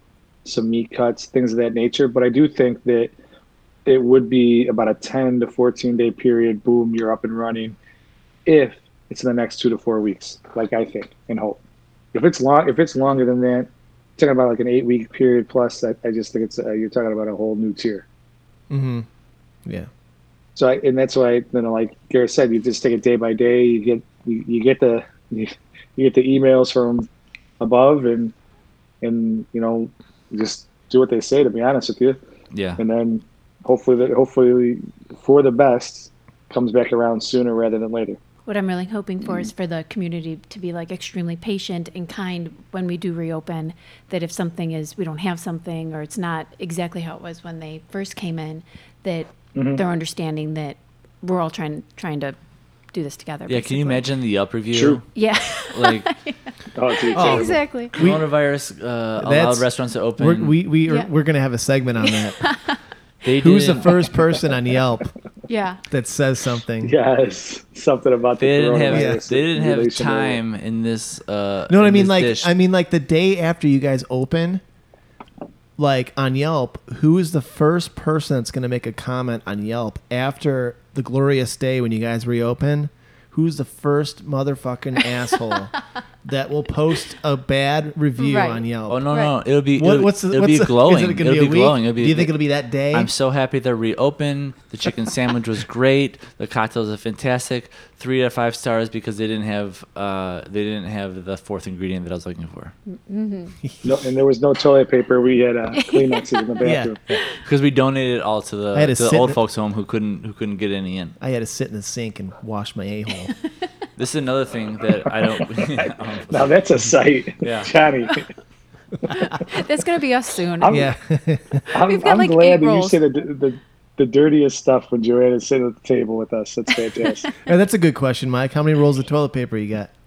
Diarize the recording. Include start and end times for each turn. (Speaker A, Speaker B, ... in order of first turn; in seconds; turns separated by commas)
Speaker A: 0.4-3.1, Speaker A: 3.9-7.8, Speaker A: 8.4-11.6, Speaker A: 12.1-18.0, Speaker B: 18.7-19.1, Speaker A: 20.6-27.1, Speaker A: 27.6-28.3, Speaker A: 29.0-32.2, Speaker C: 32.5-32.8, Speaker A: 32.8-38.2, Speaker D: 38.5-52.4, Speaker A: 49.5-49.8, Speaker D: 52.9-54.0, Speaker C: 53.5-55.1, Speaker A: 54.7-55.0, Speaker D: 55.1-57.9, Speaker C: 55.6-56.1, Speaker A: 56.7-57.6, Speaker B: 57.1-58.2, Speaker C: 57.9-60.6, Speaker B: 59.2-62.5, Speaker D: 62.1-62.8, Speaker C: 63.2-64.1, Speaker B: 63.4-65.1, Speaker D: 65.5-65.8, Speaker B: 65.9-66.9, Speaker A: 66.8-70.4, Speaker C: 68.4-72.5, Speaker B: 68.9-69.2, Speaker B: 71.7-74.6, Speaker B: 75.8-85.7, Speaker B: 86.2-89.1, Speaker D: 88.2-89.3, Speaker C: 88.9-92.4, Speaker B: 89.7-93.1, Speaker C: 92.9-102.7, Speaker D: 102.9-103.5, Speaker A: 103.8-107.0, Speaker D: 105.7-106.2, Speaker B: 106.6-106.9, Speaker C: 107.1-111.2, Speaker B: 108.7-109.4, Speaker B: 111.2-113.3, Speaker C: 114.0-116.6, Speaker A: 116.3-118.2, Speaker C: 117.4-117.7, Speaker D: 119.1-120.8, Speaker A: 120.6-120.8, Speaker B: 120.7-121.7, Speaker A: 121.7-127.3, Speaker D: 121.7-123.0, Speaker B: 127.4-129.9